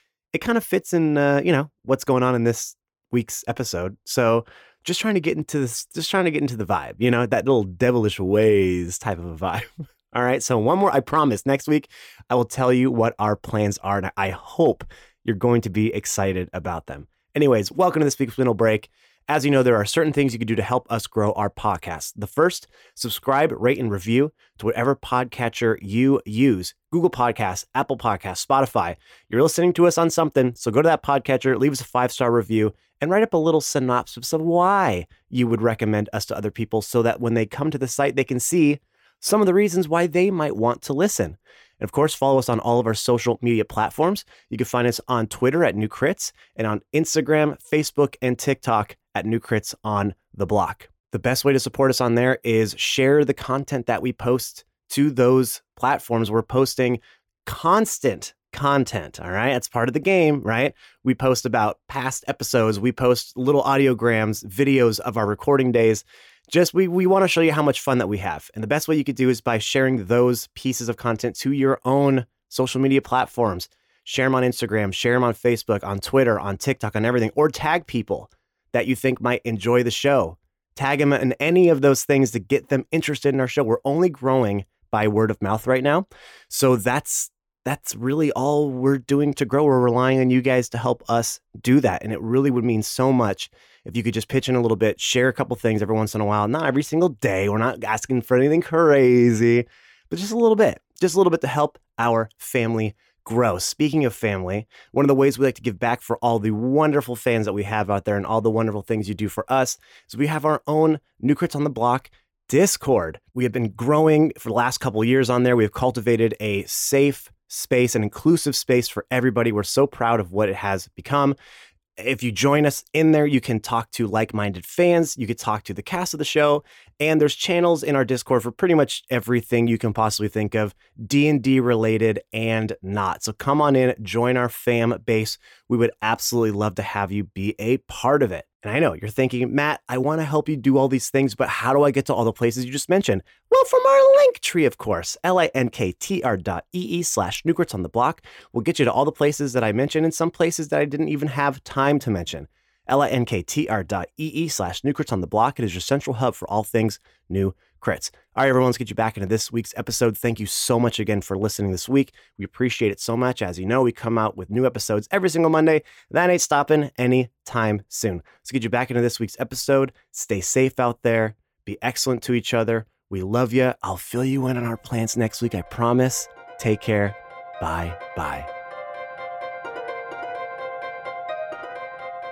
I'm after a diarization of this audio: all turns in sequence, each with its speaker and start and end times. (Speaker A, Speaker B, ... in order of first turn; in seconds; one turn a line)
Speaker A: 0.3-121.4
Speaker A: 122.0-178.5